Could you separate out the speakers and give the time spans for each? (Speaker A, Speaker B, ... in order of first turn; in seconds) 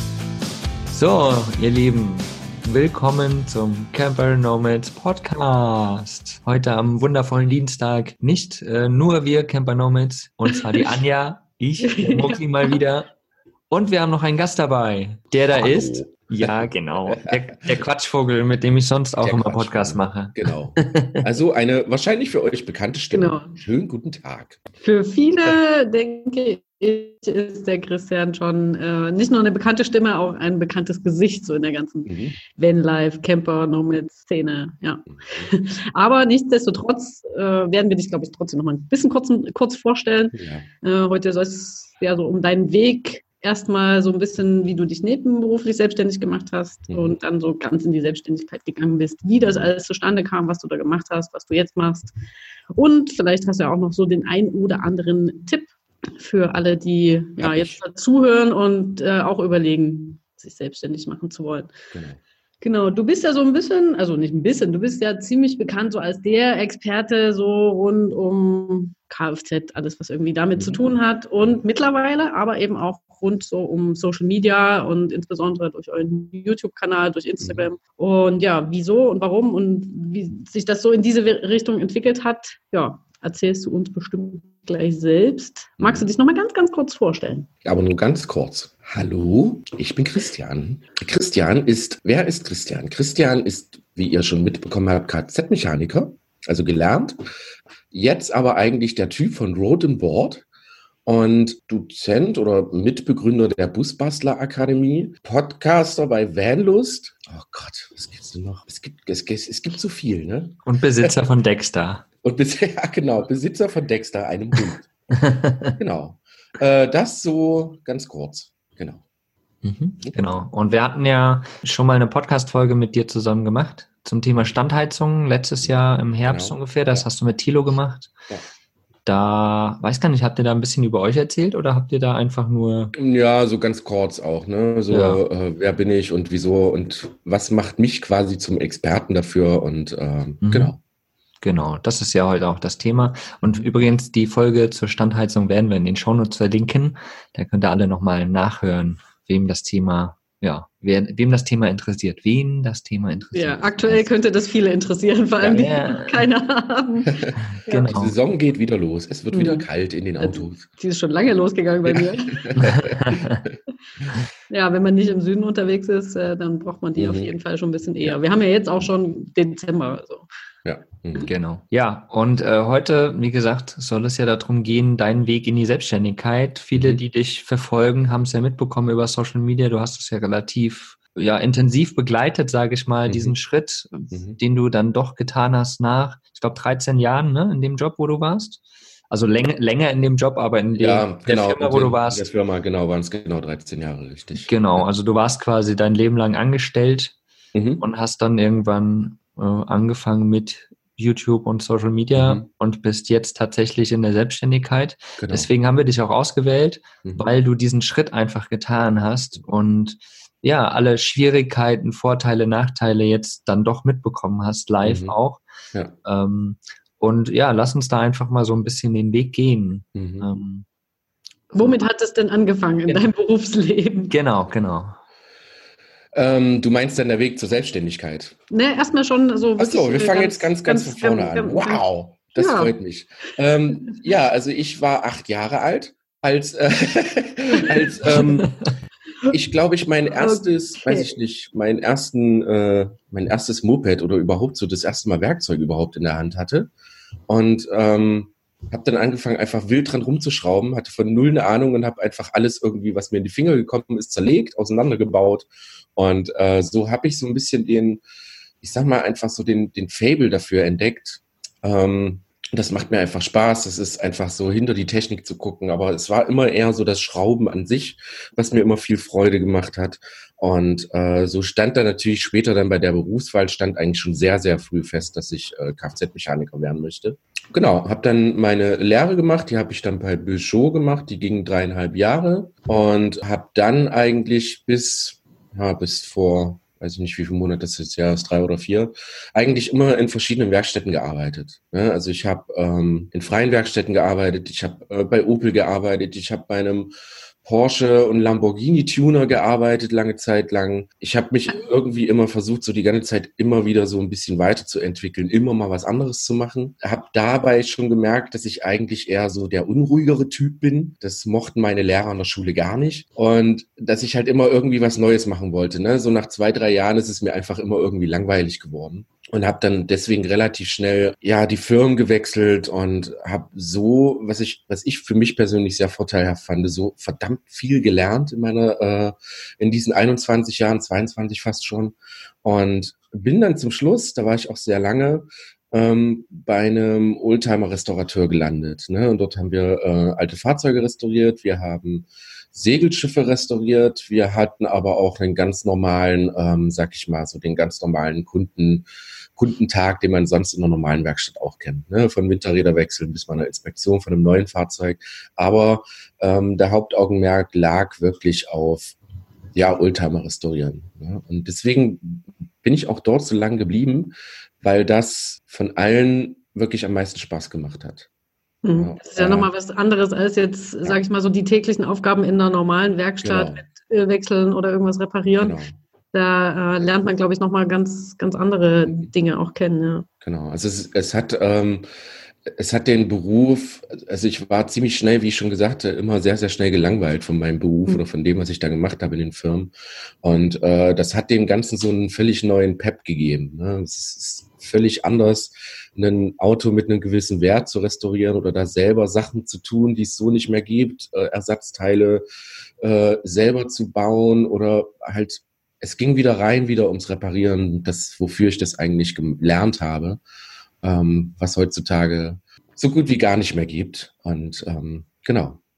Speaker A: 0.9-13.1, 13.7-21.2, 110.7-112.0, 115.1-115.8, 119.6-128.2, 129.1-132.9, 134.9-135.2, 140.4-140.7, 141.4-154.1, 155.4-156.3, 157.4-158.2, 162.6-163.4, 171.2-192.2, 194.4-197.2, 197.8-215.4, 216.0-220.7, 224.1-225.0, 238.1-238.7
Speaker B: 11.8-12.7, 23.1-23.6, 24.8-52.1, 52.7-61.8, 62.6-87.5, 153.3-157.9, 159.3-159.7, 160.2-162.6, 164.5-170.3, 221.5-224.1, 228.5-231.8, 232.4-232.8, 240.1-241.1, 368.6-375.6, 376.1-380.1
Speaker C: 15.5-17.5, 19.2-24.6, 32.1-32.4, 35.1-35.5, 40.3-40.7, 46.9-47.2, 57.4-57.8, 61.9-62.2, 70.6-70.8, 77.4-77.7, 85.8-86.1, 87.6-97.2, 97.9-100.5, 101.1-111.2, 112.2-114.9, 115.8-119.0, 126.2-127.1, 132.9-140.8, 157.9-160.7, 161.9-163.6, 167.0-167.3, 170.6-171.3, 176.8-177.0, 183.1-183.4, 184.1-184.4, 190.8-194.9, 197.5-197.8, 202.2-202.5, 205.2-205.5, 214.8-215.2, 219.9-220.3, 226.1-228.4, 229.6-238.6, 239.3-246.7, 247.3-258.0, 258.6-296.9, 297.4-358.9, 359.5-368.1, 368.8-369.5, 373.2-373.6, 375.4-375.8, 378.9-379.1, 380.2-381.9, 382.5-402.2, 402.8-410.2, 410.8-415.6